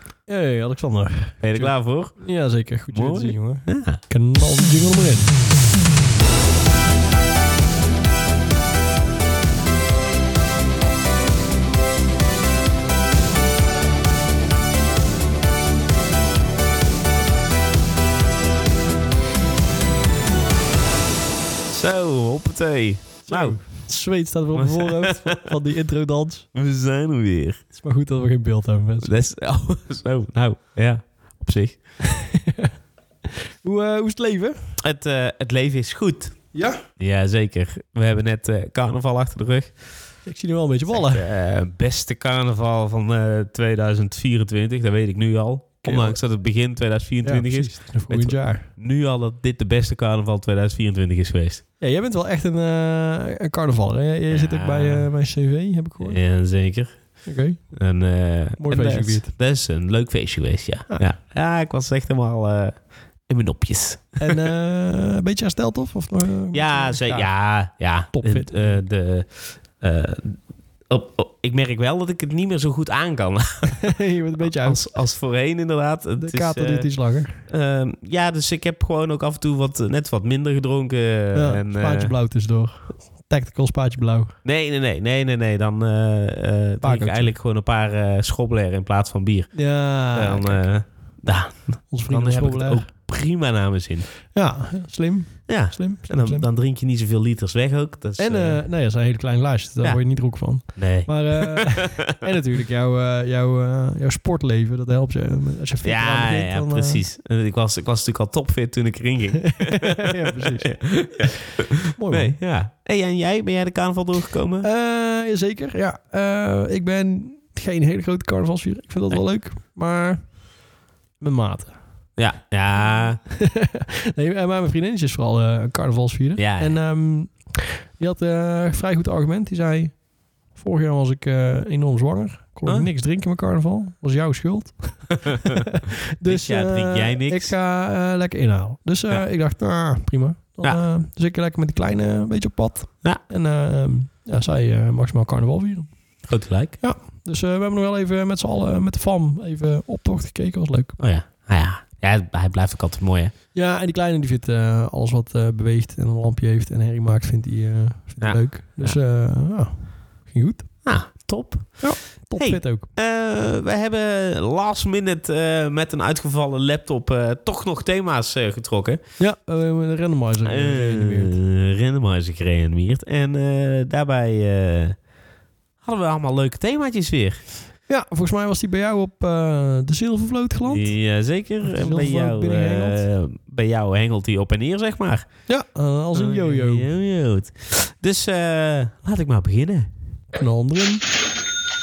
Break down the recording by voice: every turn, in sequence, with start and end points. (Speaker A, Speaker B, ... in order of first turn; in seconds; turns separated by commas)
Speaker A: 0.3-5.4, Speaker B: 1.4-2.3, Speaker B: 2.9-4.0, Speaker B: 21.7-23.6, Speaker A: 23.2-26.5, Speaker B: 24.5-25.5, Speaker B: 26.5-27.6, Speaker A: 27.8-29.1, Speaker B: 29.0-31.8, Speaker A: 32.0-32.7, Speaker A: 33.3-34.5, Speaker B: 34.8-36.4, Speaker A: 36.5-36.8, Speaker B: 37.0-39.9, Speaker A: 40.2-41.3, Speaker B: 40.9-51.6, Speaker A: 45.8-46.2, Speaker A: 47.2-48.7, Speaker A: 51.8-56.2, Speaker B: 54.3-55.1, Speaker B: 56.0-64.4, Speaker A: 57.2-57.8, Speaker A: 58.6-59.3, Speaker A: 64.2-67.3, Speaker B: 66.5-82.1, Speaker A: 68.1-68.8, Speaker A: 73.8-74.8, Speaker A: 76.2-77.4, Speaker A: 81.3-84.3, Speaker B: 84.4-94.1, Speaker A: 86.8-87.3, Speaker A: 89.5-90.7, Speaker A: 91.9-92.8, Speaker A: 94.3-96.4, Speaker B: 95.5-98.6, Speaker A: 98.2-107.0, Speaker B: 99.8-102.1, Speaker B: 105.8-114.7, Speaker A: 109.4-111.2, Speaker A: 111.9-112.4, Speaker A: 114.6-120.6, Speaker A: 121.2-121.8, Speaker B: 122.2-123.2, Speaker A: 122.9-146.2, Speaker B: 126.3-126.8, Speaker B: 136.2-137.5, Speaker B: 146.3-146.8, Speaker A: 146.8-151.0, Speaker B: 151.0-153.3, Speaker A: 153.5-160.7, Speaker B: 158.2-159.0, Speaker B: 160.8-169.0, Speaker A: 161.8-162.9, Speaker A: 169.2-171.3, Speaker B: 170.4-175.0, Speaker B: 175.8-177.4, Speaker A: 177.9-180.9, Speaker B: 180.6-185.3, Speaker A: 181.6-183.0, Speaker A: 185.5-186.9, Speaker B: 186.1-189.9, Speaker A: 190.3-191.1